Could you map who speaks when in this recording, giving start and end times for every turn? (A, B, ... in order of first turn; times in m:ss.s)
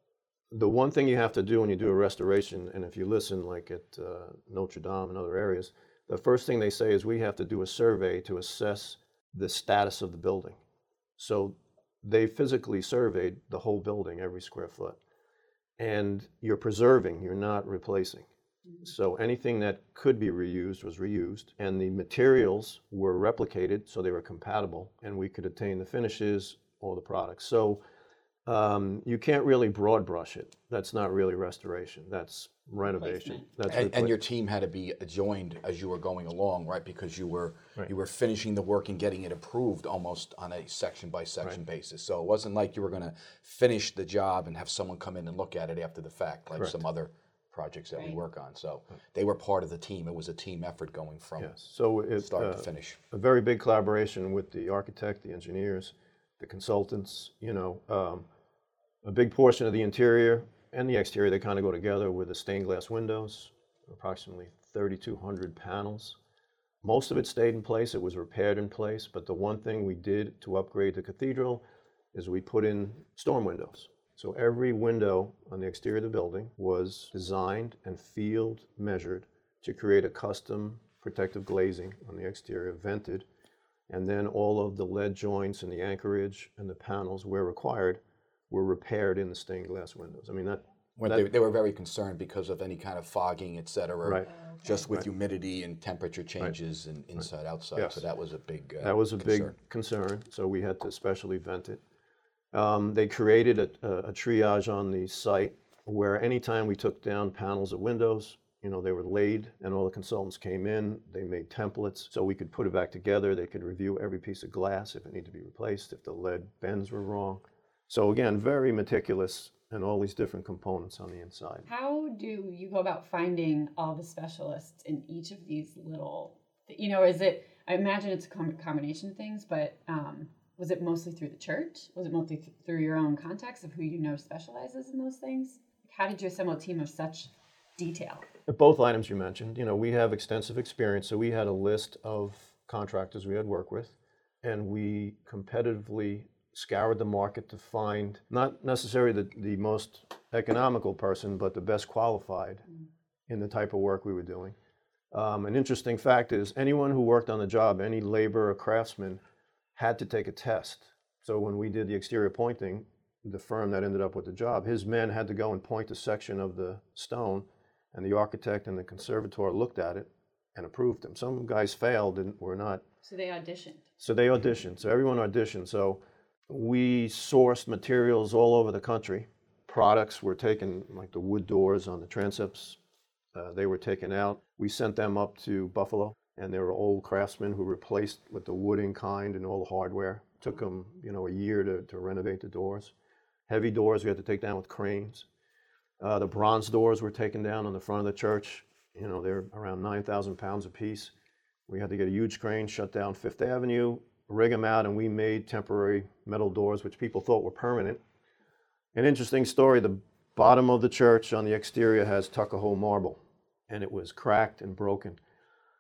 0:00.5-0:10.6 A
0:11.2-0:15.0 A
0:15.8-0:18.3 A
0:18.8-0:27.8 A
0:28.5-0:34.1 A
0:32.8-0:33.8 B
0:33.7-0:51.5 C
0:51.4-0:58.3 A
0:52.2-0:53.0 C
0:59.0-1:06.2 A
1:06.8-1:23.3 A
1:23.9-1:31.3 A
1:31.0-1:39.5 C
1:34.3-1:34.8 B
1:37.8-1:38.0 A
1:38.8-1:41.8 A
1:42.5-2:01.7 A
2:01.7-2:18.3 B
2:18.5-2:32.7 A
2:33.3-2:34.6 A
2:35.1-2:39.2 A
2:39.8-2:52.8 A
2:53.0-2:53.8 B
2:54.0-3:02.8 A
3:03.3-3:12.9 A
3:13.5-3:15.3 A
3:16.0-3:21.1 A
3:21.7-3:28.0 A
3:28.9-3:35.2 A